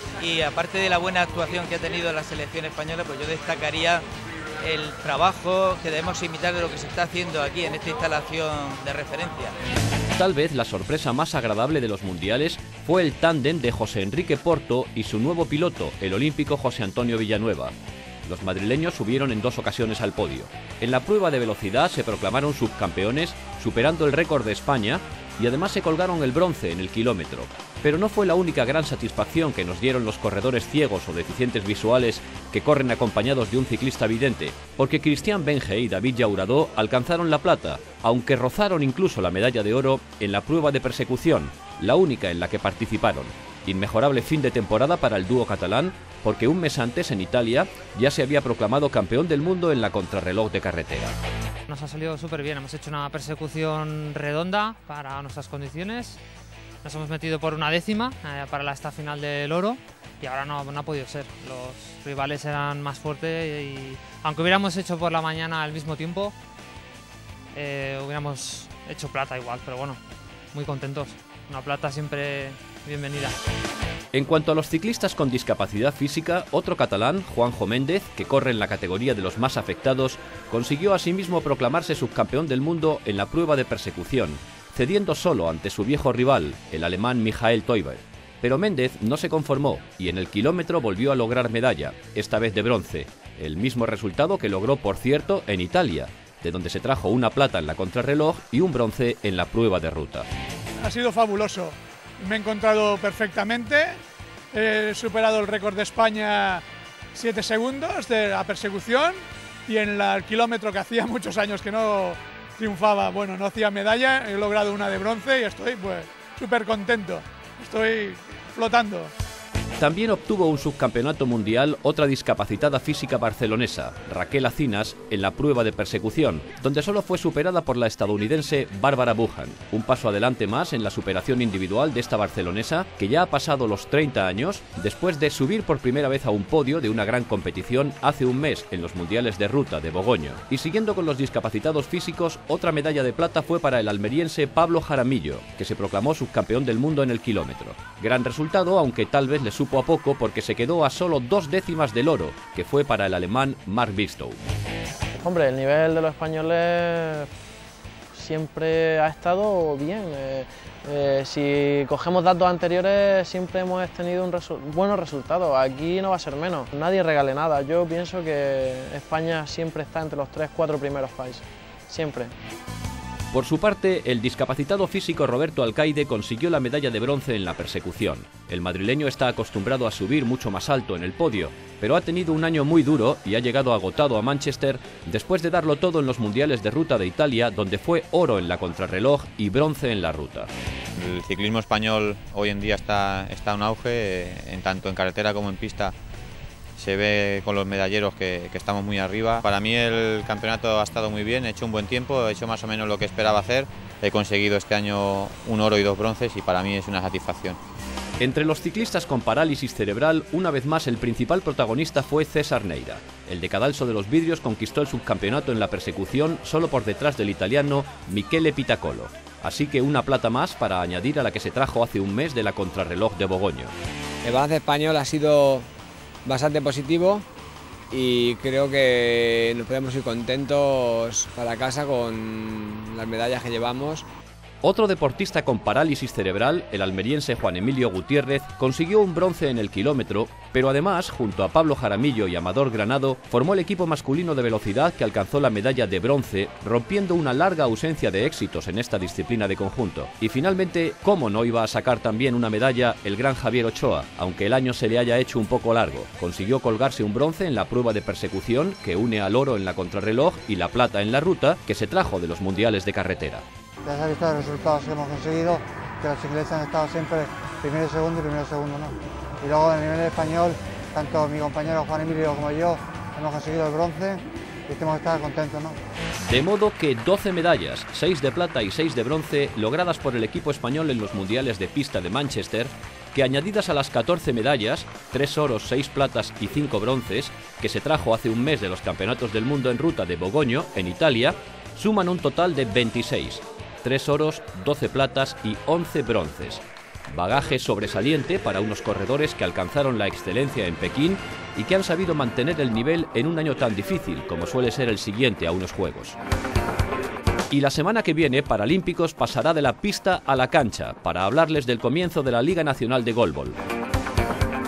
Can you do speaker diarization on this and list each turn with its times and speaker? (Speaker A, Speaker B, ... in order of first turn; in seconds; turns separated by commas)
Speaker A: 0.2-4.1, Speaker A: 4.6-9.6, Speaker B: 10.2-17.7, Speaker B: 18.2-51.1, Speaker C: 51.7-56.2, Speaker C: 56.8-66.3, Speaker C: 67.5-70.0, Speaker C: 70.5-73.4, Speaker B: 74.1-100.3, Speaker D: 100.8-104.0, Speaker D: 104.5-106.6, Speaker D: 107.2-119.1, Speaker B: 119.8-154.4, Speaker E: 155.2-157.3, Speaker E: 158.1-172.3, Speaker B: 173.3-190.5, Speaker F: 191.0-195.9, Speaker F: 196.8-207.6, Speaker B: 208.2-223.7, Speaker G: 224.2-225.7, Speaker G: 226.2-227.3, Speaker G: 227.9-234.1, Speaker B: 234.6-263.4, Speaker H: 263.9-275.8, Speaker B: 276.2-306.2, Speaker B: 307.5-313.6